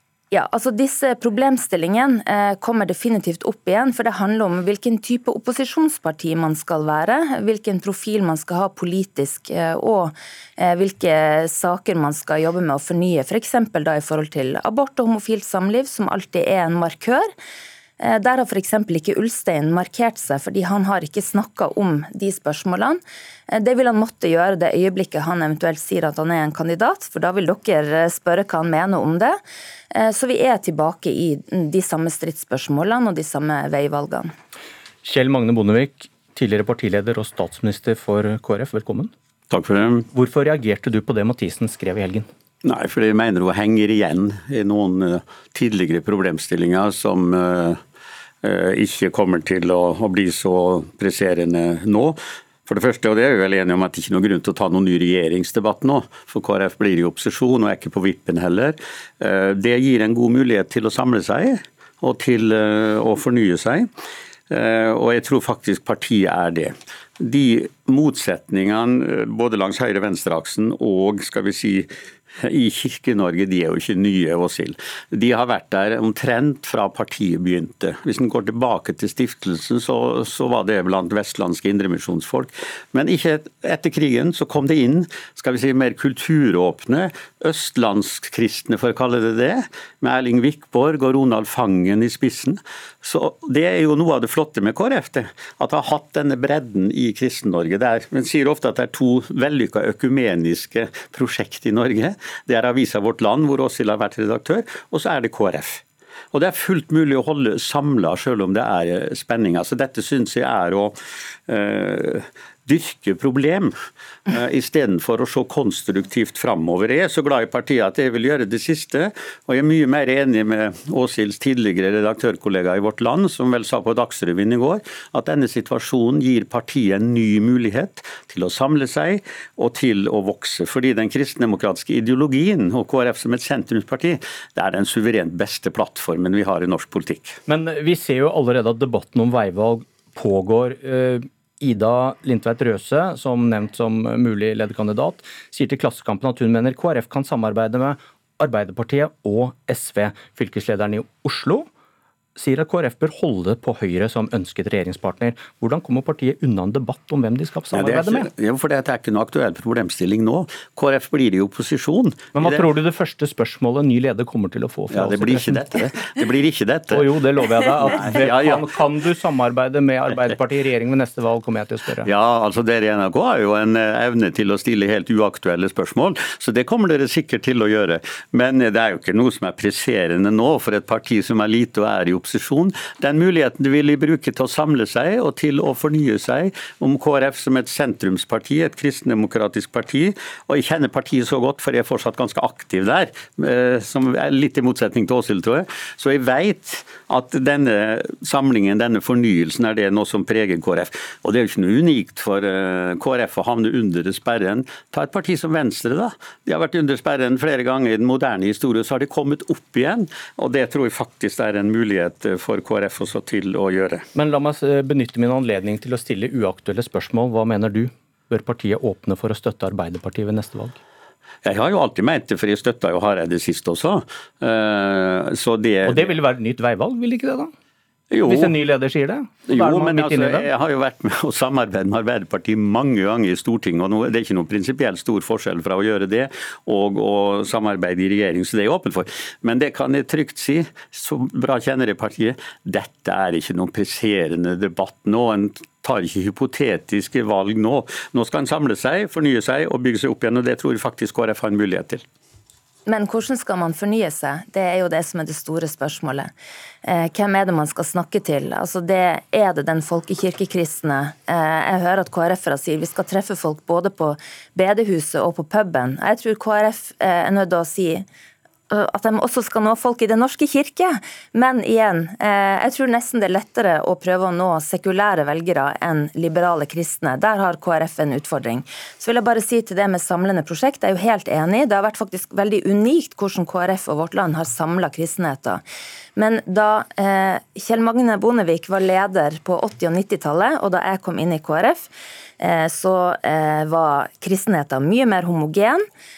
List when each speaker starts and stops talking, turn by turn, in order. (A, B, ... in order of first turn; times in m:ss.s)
0:00.3-0:17.3 A
0:18.0-0:29.4 A
0:29.9-0:34.3 A
0:35.0-0:39.1 B
0:39.5-0:40.1 C
0:40.1-0:42.3 B
0:42.6-0:47.8 C
0:48.4-1:03.9 C
1:04.5-1:53.7 C
1:54.3-2:17.4 C
2:17.5-2:31.7 B
2:32.4-2:38.3 B
2:37.7-2:42.6 C
2:42.3-2:45.6 B
2:44.9-2:47.1 C
2:46.9-2:52.1 B
2:47.9-2:48.6 C
2:52.0-3:34.0 C
3:34.1-3:40.8 B
3:41.4-3:46.1 C
3:45.8-3:47.5 B
3:48.1-3:48.5 C
3:48.2-3:50.5 B
3:49.5-4:12.0 C
4:12.9-4:16.3 A
4:16.8-4:28.0 A
4:28.7-4:45.6 A
4:46.2-4:55.8 A